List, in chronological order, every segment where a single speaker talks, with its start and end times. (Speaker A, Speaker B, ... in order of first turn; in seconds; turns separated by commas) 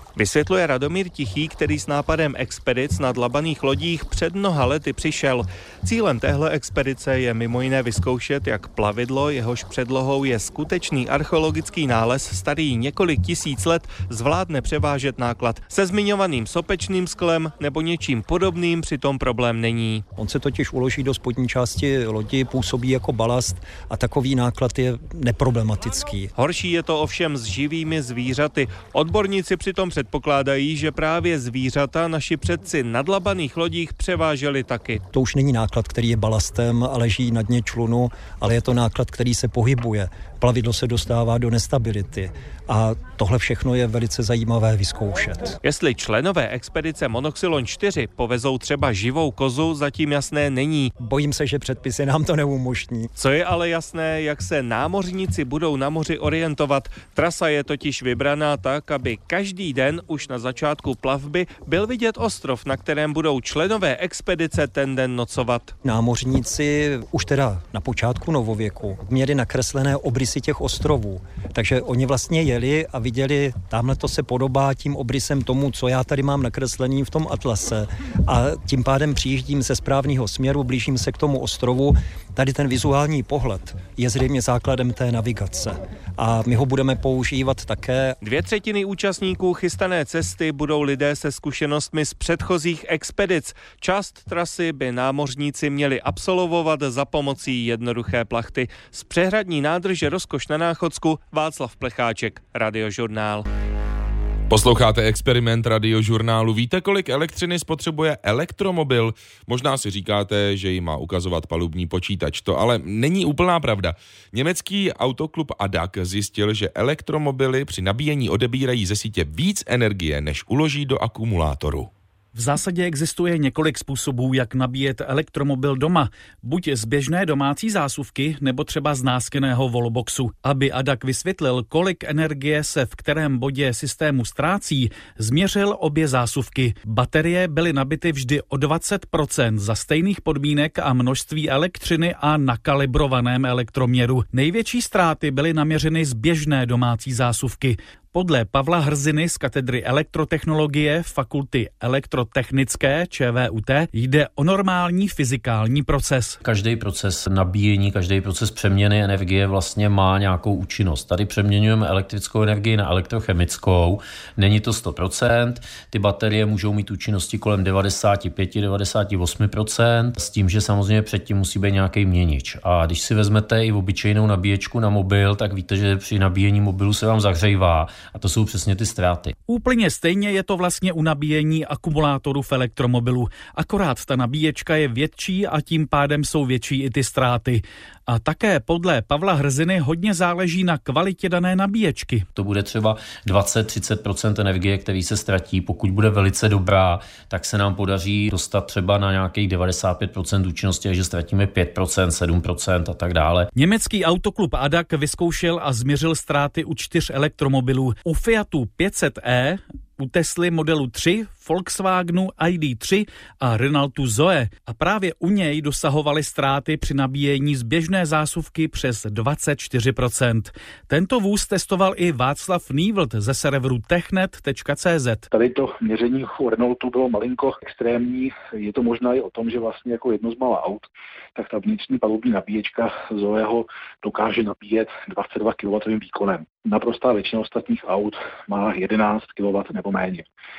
Speaker A: 0.1-20.0, Speaker B: 20.2-26.3, Speaker A: 26.4-35.0, Speaker B: 35.1-45.6, Speaker A: 45.6-50.9, Speaker B: 51.0-53.1, Speaker A: 53.2-65.7, Speaker B: 65.8-88.2, Speaker A: 88.2-103.5, Speaker C: 104.5-121.9, Speaker D: 122.3-156.4, Speaker E: 156.4-179.3, Speaker D: 179.4-192.2, Speaker E: 192.3-203.5, Speaker D: 203.5-225.2, Speaker F: 225.3-230.8, Speaker F: 231.3-240.2